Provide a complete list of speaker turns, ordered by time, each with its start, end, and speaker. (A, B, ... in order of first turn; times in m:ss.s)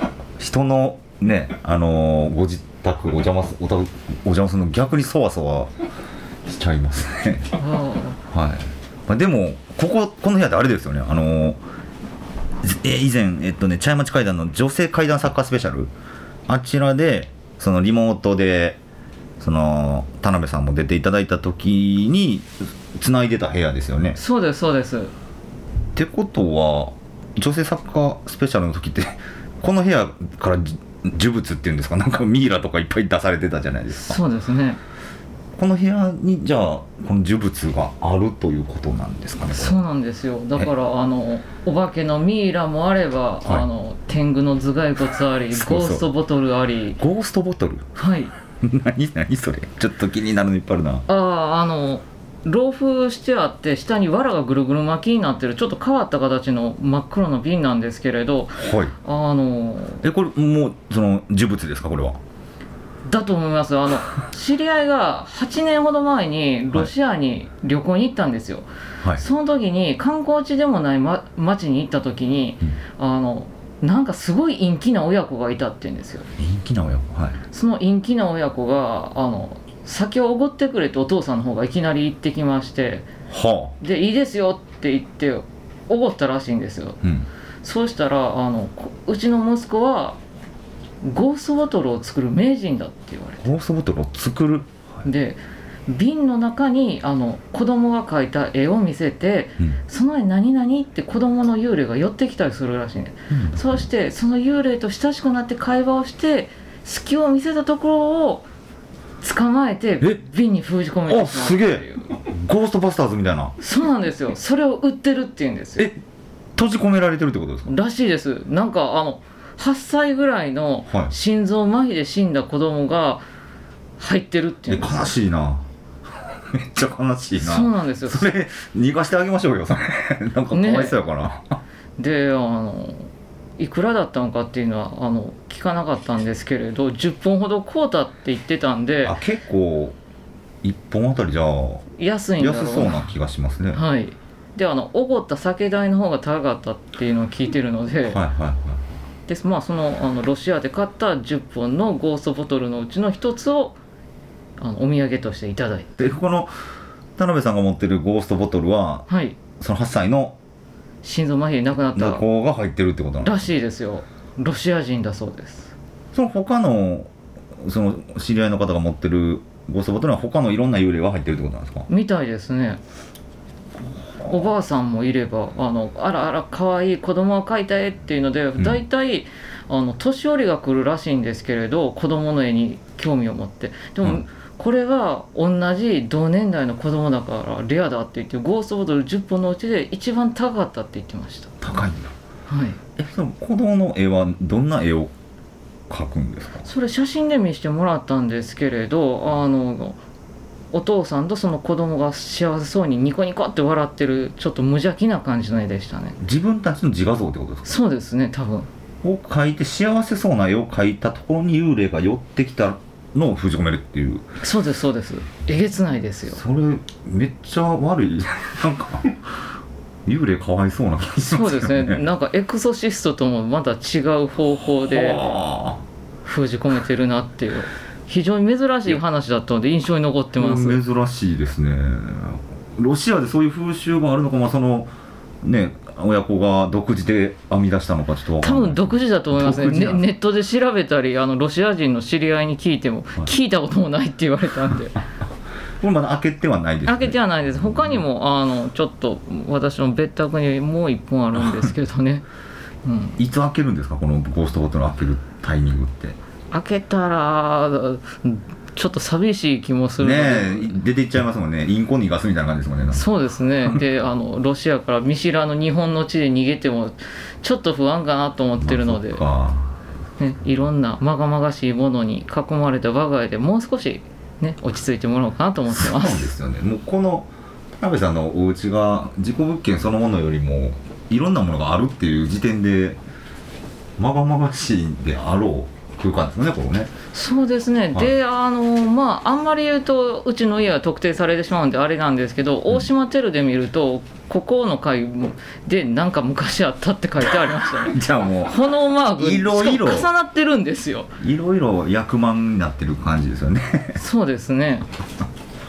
0:00.4-0:05.7 A
0:06.4-0:07.6 A
0:07.6-0:08.2 B
0:08.3-0:11.6 A
0:12.6-0:15.9 A
0:16.5-0:18.8 A
0:19.4-0:24.2 A
0:24.1-0:25.1 B
0:25.9-0:34.2 A
0:34.0-0:34.8 B
0:35.6-0:39.8 A
0:39.5-0:47.0 B
0:45.5-0:46.1 A
0:47.0-0:47.9 A
0:48.0-0:48.3 B
0:48.6-0:51.0 A
0:51.1-1:00.0 B
0:58.6-0:58.9 A
1:00.0-1:02.2 A
1:03.1-1:16.3 B
1:16.4-1:17.4 A
1:17.5-1:23.1 B
1:23.3-1:23.7 A
1:23.8-1:27.0 B
1:27.6-1:30.2 B
1:31.0-1:33.5 B
1:33.4-1:34.7 A
1:35.0-1:48.4 B
1:43.3-1:43.9 A
1:49.2-1:52.1 B
1:51.1-1:53.5 A
1:53.6-1:55.9 B
1:56.6-1:57.7 A
1:57.7-2:03.2 B
2:04.0-2:05.1 B
2:04.7-2:05.6 A
2:06.4-2:11.6 A
2:07.4-2:08.3 B
2:10.5-2:11.0 B
2:12.0-2:19.2 B
2:19.0-2:20.0 A
2:20.6-2:21.8 A
2:22.0-2:23.1 B
2:22.4-2:23.8 A
2:23.7-2:28.2 B
2:28.1-2:28.8 A
2:29.3-2:33.8 B
2:34.6-2:35.9 B
2:36.0-2:36.5 A
2:37.2-2:39.1 A
2:39.1-2:39.4 B
2:39.6-2:40.4 A
2:41.0-2:42.2 B
2:41.9-2:43.5 A
2:43.2-2:45.7 B
2:46.1-2:51.9 A
2:51.9-2:52.8 B
2:54.2-2:54.4 A
2:54.2-3:11.5 B
3:11.6-3:12.1 A
3:12.5-3:12.8 B
3:13.0-3:15.1 A
3:15.9-3:16.6 A
3:16.6-3:20.0 B
3:20.7-3:26.2 B
3:26.2-3:27.7 A
3:27.6-3:28.7 B
3:29.0-3:34.2 A
3:34.4-3:36.4 B
3:36.3-3:39.4 A
3:40.0-3:42.0 A
3:41.3-3:45.3 B
3:44.6-3:45.8 A
3:46.2-3:50.8 B
3:50.4-4:00.0 A
3:58.4-4:05.0 B
4:05.8-4:08.0 A
4:06.8-4:12.2 B
4:11.3-4:11.7 A
4:12.8-4:13.2 B
4:13.2-4:16.2 A
4:16.5-4:20.8 B
4:20.0-4:23.1 A
4:22.9-4:29.2 B
4:28.6-4:29.7 A
4:30.2-4:36.3 B
4:35.7-4:43.0 A
4:44.0-4:46.9 A
4:47.1-5:01.1 B
4:57.3-4:58.5 A
4:59.1-5:00.1 A
5:01.2-5:04.0 A
5:04.0-5:04.9 B